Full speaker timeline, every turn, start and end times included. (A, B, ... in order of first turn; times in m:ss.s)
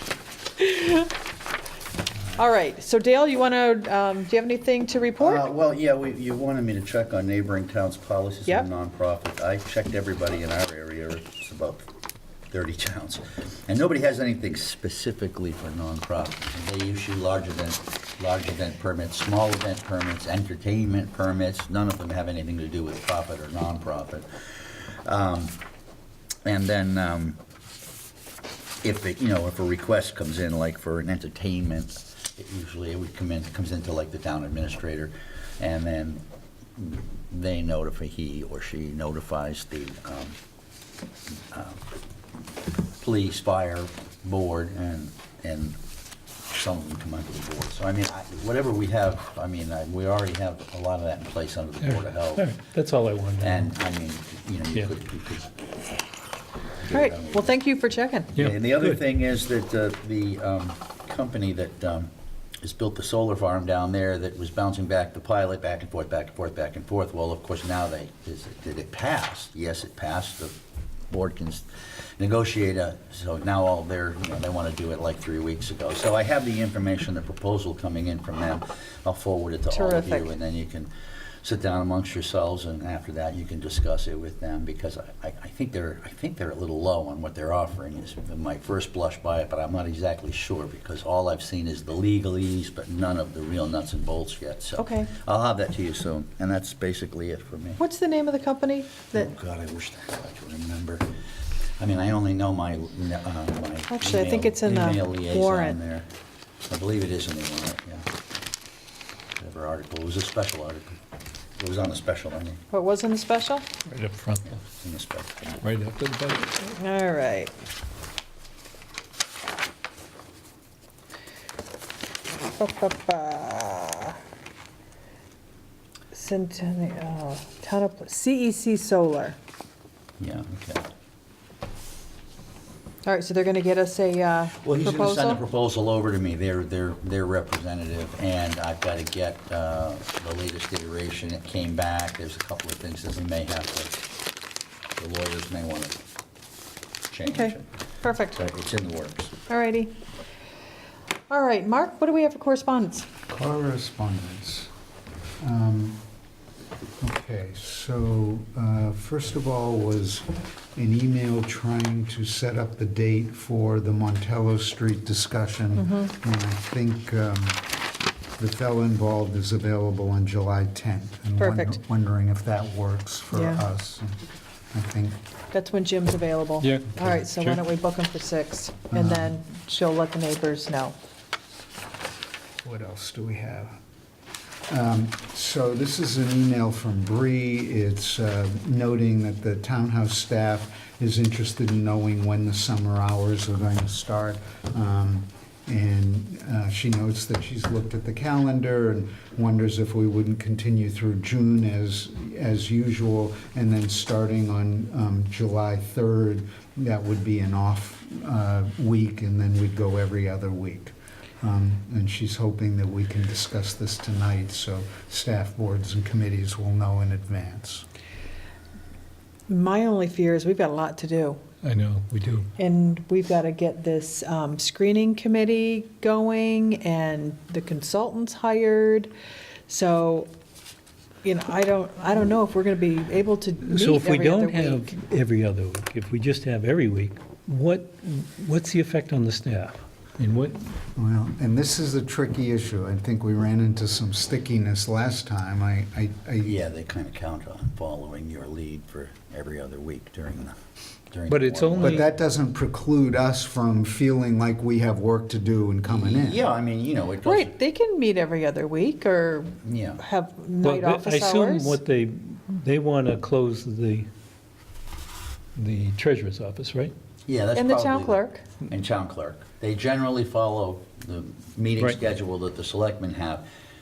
0:00.6-0:01.1 A
0:02.4-0:05.4 A
0:05.2-0:11.9 B
0:12.5-0:25.6 B
0:26.4-0:27.4 B
0:28.8-0:36.2 B
0:36.8-0:40.4 B
0:41.5-0:41.8 B
0:43.0-0:45.8 B
0:46.5-0:52.5 B
0:51.8-0:53.7 C
0:53.4-0:55.5 B
0:56.8-0:57.5 B
0:56.9-0:58.3 A
0:58.4-0:59.0 C
0:58.4-1:02.1 B
1:02.6-1:10.6 B
1:11.1-1:20.9 B
1:19.7-1:20.3 A
1:21.4-1:37.8 B
1:34.8-1:35.1 A
1:37.8-1:39.3 A
1:39.1-1:41.1 B
1:41.8-1:46.1 B
1:43.9-1:45.8 A
1:46.7-1:48.1 B
1:49.4-1:51.0 B
1:51.6-1:52.6 B
1:52.7-1:53.7 A
1:53.8-1:54.6 C
1:54.4-1:55.6 B
1:55.6-1:56.6 C
1:56.6-1:57.5 A
2:02.6-2:04.2 A
2:06.1-2:09.4 A
2:10.2-2:10.8 B
2:13.0-2:15.4 A
2:14.6-2:23.9 B
2:25.0-2:26.0 B
2:27.1-2:27.7 B
2:27.2-2:28.4 A
2:28.3-2:29.3 B
2:29.5-2:29.9 A
2:31.3-2:33.1 A
2:33.3-2:34.7 D
2:35.4-2:36.0 D
2:37.0-2:47.6 D
2:45.8-2:46.1 A
2:48.4-2:54.2 D
2:51.4-2:51.8 A
2:53.3-2:53.6 A
2:54.7-2:55.2 D
2:55.5-3:01.0 A
2:56.6-2:57.6 C
2:58.9-2:59.4 D
3:02.6-3:03.7 D
3:04.7-3:37.8 D
3:39.5-3:41.4 A
3:41.6-3:42.5 C
3:42.6-3:49.1 A
3:49.7-3:50.3 A
3:51.2-3:54.9 A
3:53.6-4:00.6 C
4:01.0-4:06.6 D
4:06.4-4:10.6 B
4:11.1-4:12.0 B
4:11.3-4:12.0 C
4:11.8-4:16.4 D
4:15.9-4:17.5 B
4:17.2-4:21.8 A
4:19.6-4:20.0 B
4:20.6-4:24.1 C
4:25.6-4:26.9 C
4:27.2-4:33.4 B
4:27.5-4:28.4 A